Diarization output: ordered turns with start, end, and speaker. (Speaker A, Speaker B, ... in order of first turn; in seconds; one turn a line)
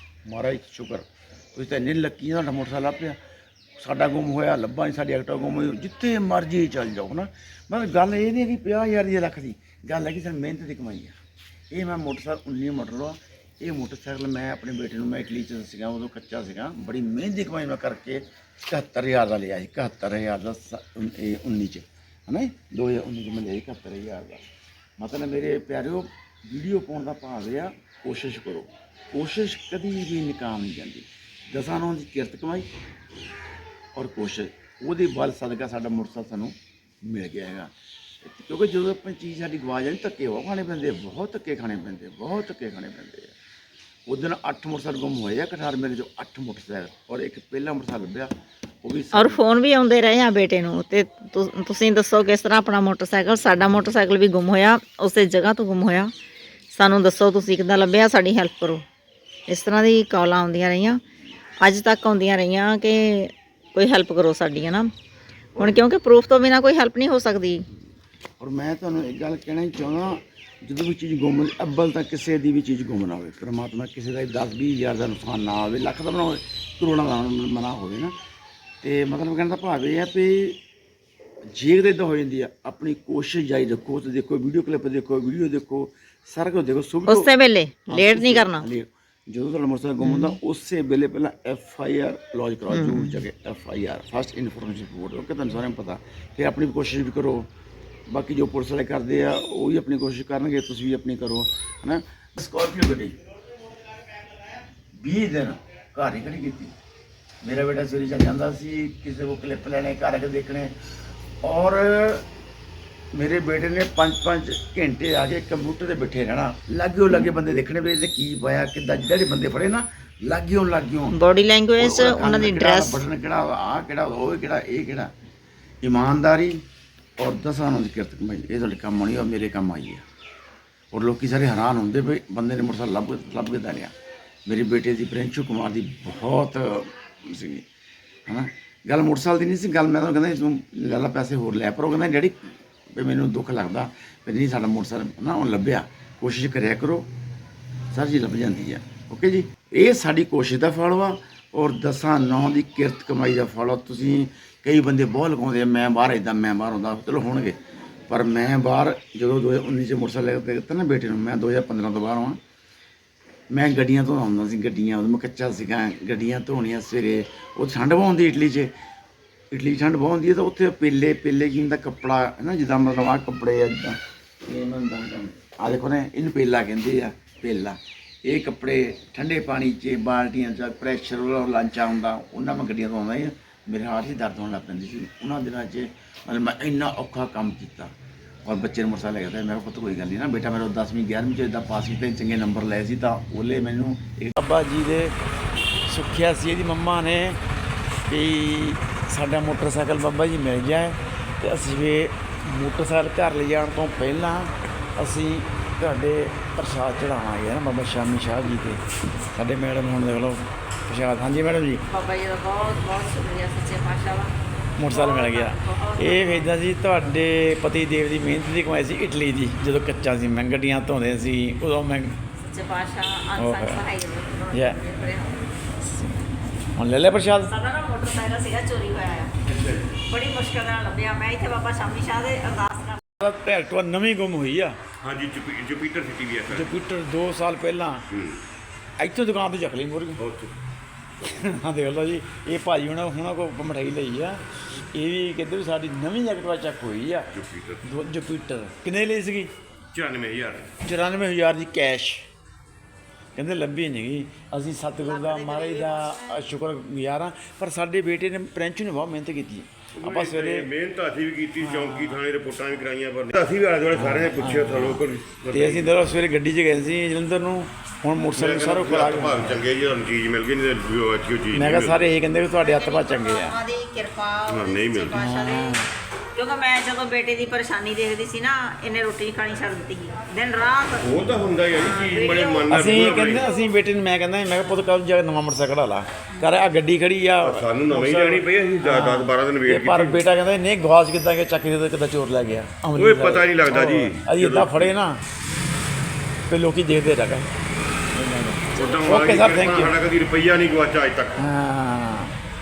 Speaker A: 0.3-3.2
Speaker A: 3.8-11.2
Speaker A: 11.7-24.5
Speaker A: 25.0-32.7
Speaker A: 33.9-43.3
Speaker A: 44.1-49.4
Speaker B: 49.1-56.1
Speaker B: 56.7-58.8
Speaker B: 59.5-61.0
Speaker B: 61.6-64.9
Speaker A: 65.6-65.9
Speaker B: 65.6-67.7
Speaker A: 68.4-78.1
Speaker A: 78.8-80.6
Speaker A: 81.5-87.3
Speaker B: 87.1-88.7
Speaker A: 87.9-97.5
Speaker B: 90.0-90.4
Speaker B: 92.7-93.2
Speaker A: 98.1-103.2
Speaker A: 104.9-106.8
Speaker A: 107.4-110.8
Speaker A: 111.4-112.3
Speaker A: 113.1-121.2
Speaker B: 121.1-123.0
Speaker A: 121.8-125.1
Speaker A: 125.8-126.6
Speaker A: 127.2-130.1
Speaker A: 130.9-133.9
Speaker A: 134.5-137.7
Speaker A: 138.3-147.1
Speaker A: 147.9-157.6
Speaker A: 158.1-162.4
Speaker A: 163.5-168.7
Speaker A: 169.5-187.9
Speaker A: 188.4-195.2
Speaker A: 195.9-197.4
Speaker A: 198.1-211.8
Speaker B: 211.9-214.4
Speaker A: 214.8-222.2
Speaker B: 214.9-216.5
Speaker B: 222.4-225.5
Speaker A: 223.4-223.8
Speaker A: 224.5-224.8
Speaker A: 226.8-227.5
Speaker B: 227.4-229.3
Speaker C: 229.5-230.0
Speaker B: 230.0-233.0
Speaker A: 233.2-234.8
Speaker C: 235.0-236.8
Speaker A: 236.5-238.1
Speaker C: 238.1-238.4
Speaker A: 239.0-240.2
Speaker C: 240.2-240.6
Speaker A: 241.2-249.5
Speaker C: 247.3-247.8
Speaker C: 249.9-250.8
Speaker A: 250.8-252.3
Speaker A: 253.3-260.7
Speaker B: 255.1-256.5
Speaker C: 260.0-265.9
Speaker A: 261.6-262.2
Speaker A: 263.9-269.7
Speaker C: 268.4-272.1
Speaker A: 271.5-273.6
Speaker B: 272.5-283.5
Speaker C: 274.5-275.2
Speaker A: 275.1-275.9
Speaker C: 281.0-283.5
Speaker A: 282.7-295.2
Speaker C: 287.4-290.2
Speaker C: 292.9-294.9
Speaker A: 296.5-297.5
Speaker A: 298.1-300.0
Speaker C: 298.7-301.5
Speaker A: 301.4-302.4